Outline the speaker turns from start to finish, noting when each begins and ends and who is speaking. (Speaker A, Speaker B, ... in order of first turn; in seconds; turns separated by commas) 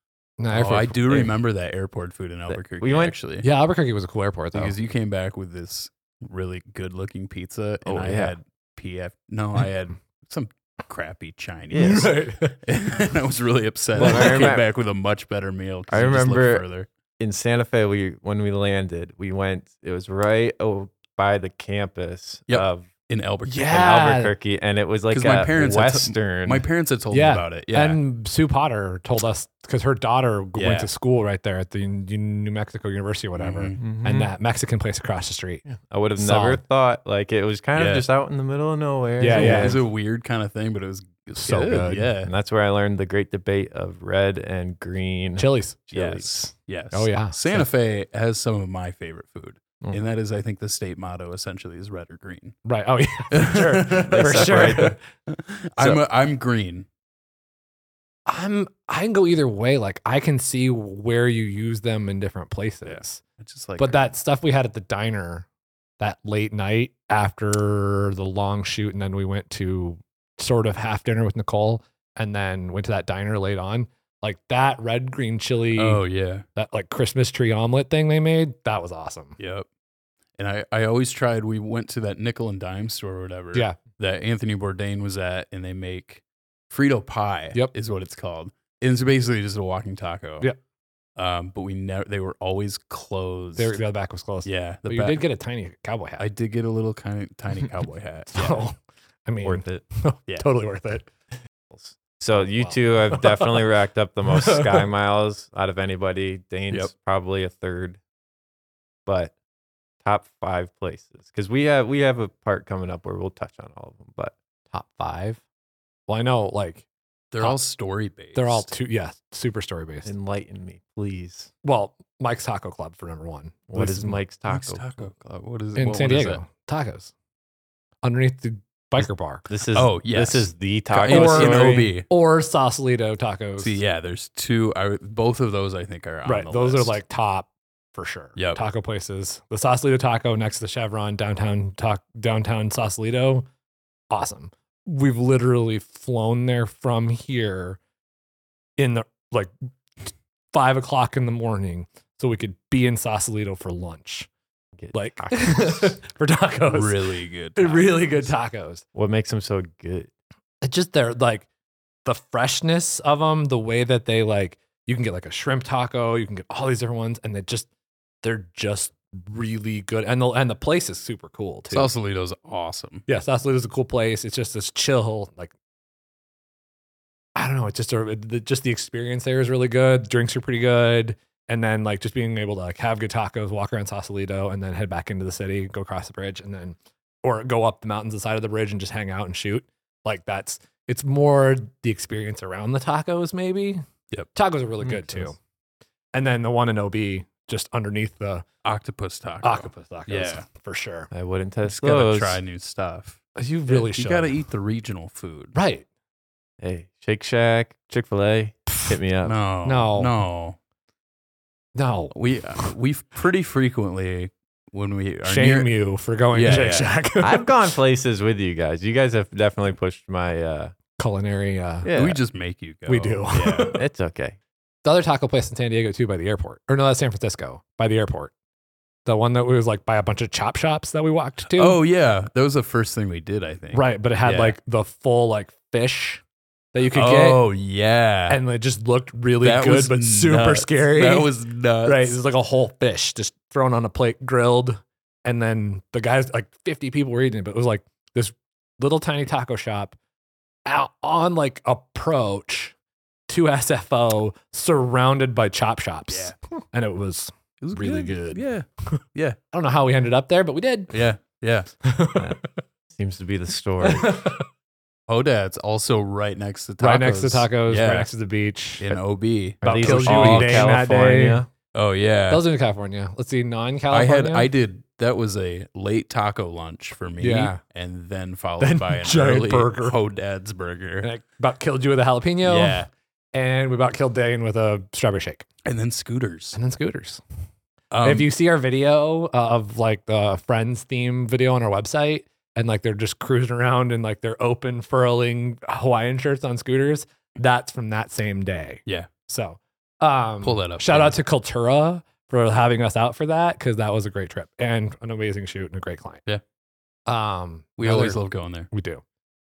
Speaker A: 0.4-1.3, Speaker B: 0.5-3.5, Speaker C: 2.5-3.1, Speaker A: 3.4-4.8, Speaker B: 4.5-16.9, Speaker C: 7.8-8.4, Speaker C: 11.7-12.0, Speaker A: 11.8-12.6, Speaker A: 13.9-14.5, Speaker C: 13.9-14.7, Speaker C: 15.9-16.6, Speaker C: 17.2-22.9, Speaker B: 22.5-23.7, Speaker A: 23.4-24.3, Speaker C: 23.7-26.6, Speaker B: 25.1-28.0, Speaker A: 27.1-35.6, Speaker B: 30.6-30.9, Speaker B: 33.4-33.8, Speaker C: 33.8-34.3, Speaker C: 35.7-39.8, Speaker A: 36.2-36.6, Speaker B: 37.8-38.1, Speaker A: 39.2-39.8, Speaker B: 39.3-42.3, Speaker A: 41.4-42.1, Speaker C: 42.2-46.5, Speaker A: 45.4-45.8, Speaker B: 45.9-52.6, Speaker A: 46.9-47.7, Speaker A: 52.6-55.0, Speaker B: 53.3-56.9, Speaker C: 54.0-54.9, Speaker A: 58.3-63.2, Speaker B: 62.9-64.1, Speaker A: 63.8-65.5, Speaker A: 66.0-76.0, Speaker B: 75.8-76.4, Speaker A: 76.5-79.4, Speaker B: 79.4-79.7, Speaker B: 80.4-90.5, Speaker B: 91.2-93.8, Speaker A: 93.6-96.2, Speaker B: 94.4-95.2, Speaker B: 96.2-98.6, Speaker A: 98.3-101.1, Speaker C: 99.4-99.8, Speaker C: 101.7-108.0, Speaker A: 102.4-103.6, Speaker A: 104.3-104.8, Speaker C: 109.1-109.3, Speaker C: 110.0-114.3, Speaker A: 114.7-115.4, Speaker A: 116.1-116.8, Speaker B: 117.3-118.7, Speaker A: 118.3-120.1, Speaker C: 120.0-121.5, Speaker A: 121.6-124.2, Speaker C: 123.7-124.8, Speaker B: 124.5-126.4, Speaker A: 125.8-127.1, Speaker A: 128.0-129.4, Speaker C: 129.5-131.9, Speaker B: 129.8-132.1, Speaker A: 130.9-133.8, Speaker B: 133.6-137.0, Speaker A: 136.3-143.4, Speaker B: 138.3-138.6, Speaker A: 144.1-147.8, Speaker A: 148.8-149.5, Speaker A: 150.5-154.3, Speaker C: 154.8-155.9, Speaker A: 154.9-157.0, Speaker B: 156.7-158.3, Speaker A: 157.6-158.8, Speaker C: 158.9-160.1, Speaker A: 160.6-161.5, Speaker A: 162.1-167.7, Speaker A: 168.2-171.9, Speaker B: 171.7-173.0, Speaker A: 173.1-175.5, Speaker A: 177.3-193.8, Speaker A: 194.3-195.4, Speaker C: 194.8-195.3, Speaker A: 196.1-198.4, Speaker B: 198.6-200.4, Speaker A: 199.4-201.1, Speaker C: 201.1-202.4, Speaker B: 201.6-205.6, Speaker A: 203.3-204.3, Speaker A: 205.5-205.8, Speaker C: 206.6-209.3, Speaker B: 209.2-210.6, Speaker A: 209.7-210.1, Speaker A: 211.8-212.7, Speaker B: 212.1-215.7, Speaker A: 215.2-217.5, Speaker B: 216.3-216.9, Speaker C: 217.2-220.7, Speaker A: 221.0-221.9, Speaker C: 221.8-222.2, Speaker B: 221.9-223.8, Speaker A: 222.9-223.8, Speaker C: 223.7-224.4, Speaker A: 224.8-228.3, Speaker A: 229.1-231.8, Speaker B: 231.5-234.6, Speaker A: 233.7-236.2, Speaker A: 236.7-237.4, Speaker B: 236.9-238.4, Speaker A: 238.3-241.3, Speaker B: 239.4-242.2, Speaker A: 241.8-249.9, Speaker A: 250.7-252.8, Speaker A: 253.3-258.4, Speaker B: 257.6-259.4, Speaker A: 259.5-261.0, Speaker B: 260.9-261.7, Speaker A: 261.8-262.5, Speaker C: 262.9-264.1, Speaker A: 263.8-264.4, Speaker B: 265.1-268.1, Speaker A: 266.8-269.0, Speaker B: 268.8-270.7, Speaker A: 269.6-271.4, Speaker C: 269.6-271.5, Speaker B: 271.7-272.4, Speaker A: 272.3-274.5, Speaker B: 273.9-281.1, Speaker A: 277.2-277.6, Speaker A: 278.6-279.9, Speaker A: 281.0-282.8, Speaker B: 282.4-282.9, Speaker A: 283.3-285.4, Speaker B: 285.6-286.6, Speaker A: 286.5-287.2, Speaker B: 287.9-288.3, Speaker A: 288.0-306.2, Speaker B: 300.4-301.2, Speaker A: 307.1-308.2, Speaker B: 307.8-308.7, Speaker A: 308.7-309.0